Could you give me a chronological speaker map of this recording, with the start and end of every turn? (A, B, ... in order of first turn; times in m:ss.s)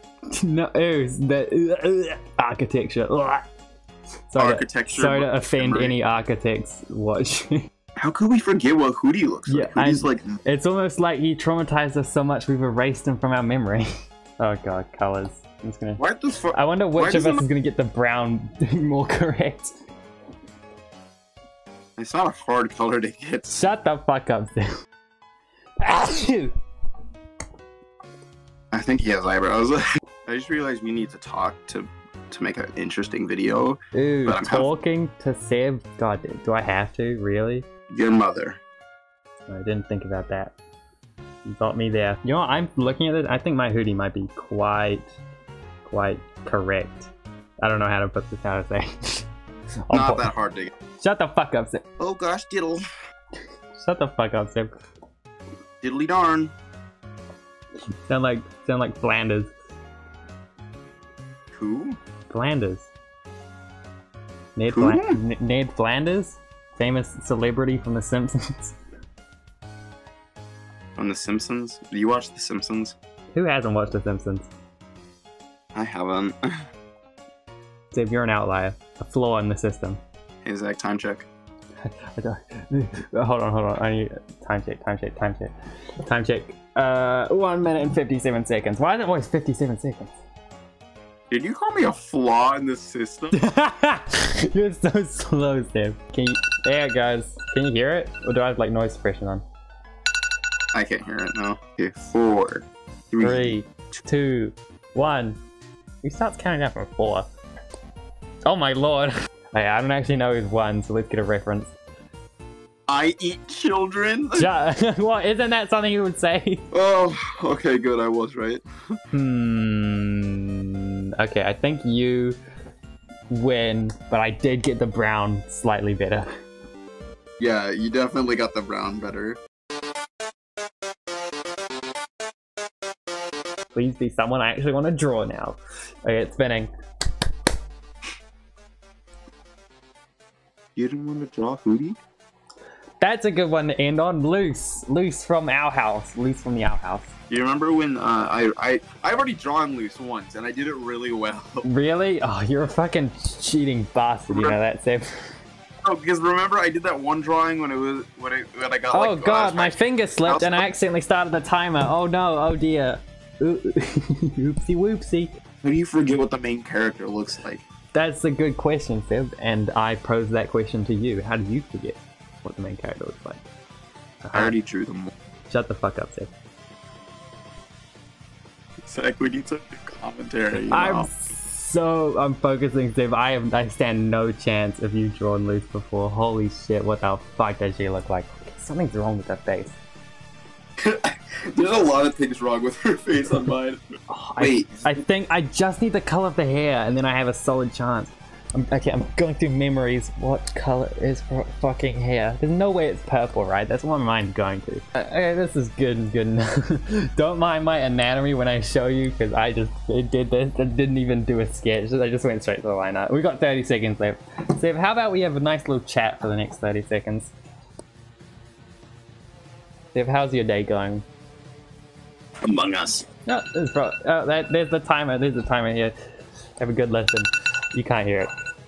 0:00.3-0:03.4 A
0:04.3-0:07.7 A
0:04.4-0:06.0 B
0:08.0-0:10.3 B
0:09.5-0:13.9 A
0:14.4-0:16.0 A
0:16.0-0:17.4 B
0:16.5-0:19.7 A
0:22.0-0:23.7 B
0:23.5-0:24.7 A
0:25.8-0:26.5 A
0:28.7-0:34.7 B
0:33.9-0:37.7 A
0:37.9-0:38.6 B
0:39.5-0:40.5 A
0:41.4-0:45.1 A
0:45.8-0:49.2 A
0:49.9-0:50.3 A
0:49.9-0:50.7 B
0:51.0-0:51.8 A
0:52.0-0:52.8 B
0:53.8-0:54.7 A
0:55.8-0:56.5 B
0:58.1-0:59.5 A
1:01.5-1:02.0 B
1:02.3-1:02.9 A
1:04.6-1:08.8 A
1:04.7-1:05.2 B
1:11.0-1:13.0 B
1:13.3-1:14.5 A
1:15.7-1:16.5 B
1:17.9-1:20.0 A
1:20.4-1:21.3 B
1:21.8-1:25.5 A
1:26.0-1:30.2 A
1:31.3-1:33.4 B
1:33.3-1:39.4 A
1:40.7-1:43.6 B
1:43.2-1:45.4 A
1:46.0-1:47.3 A
1:48.4-1:51.7 A
1:52.9-1:54.5 B
1:54.3-1:56.6 A
1:56.7-1:58.6 B
1:59.1-2:02.4 A
2:03.3-2:06.3 A
2:07.4-2:09.4 B
2:13.7-2:16.7 A
2:20.8-2:22.0 B
2:23.0-2:27.1 A
2:27.3-2:31.6 B
2:31.6-2:35.3 A
2:34.3-2:34.5 B
2:35.8-2:40.6 B
2:38.9-2:45.3 A
2:45.6-2:47.6 B
2:47.9-2:53.5 A
2:54.2-2:54.5 A
2:54.3-2:55.1 B
2:55.5-2:56.3 A
2:58.8-3:01.1 B
3:00.5-3:09.8 A
3:10.8-3:13.8 B
3:14.1-3:37.3 A
3:14.4-3:15.0 B
3:39.9-3:41.0 A
3:42.4-3:43.0 B
3:43.2-3:45.9 A
3:46.6-3:48.3 A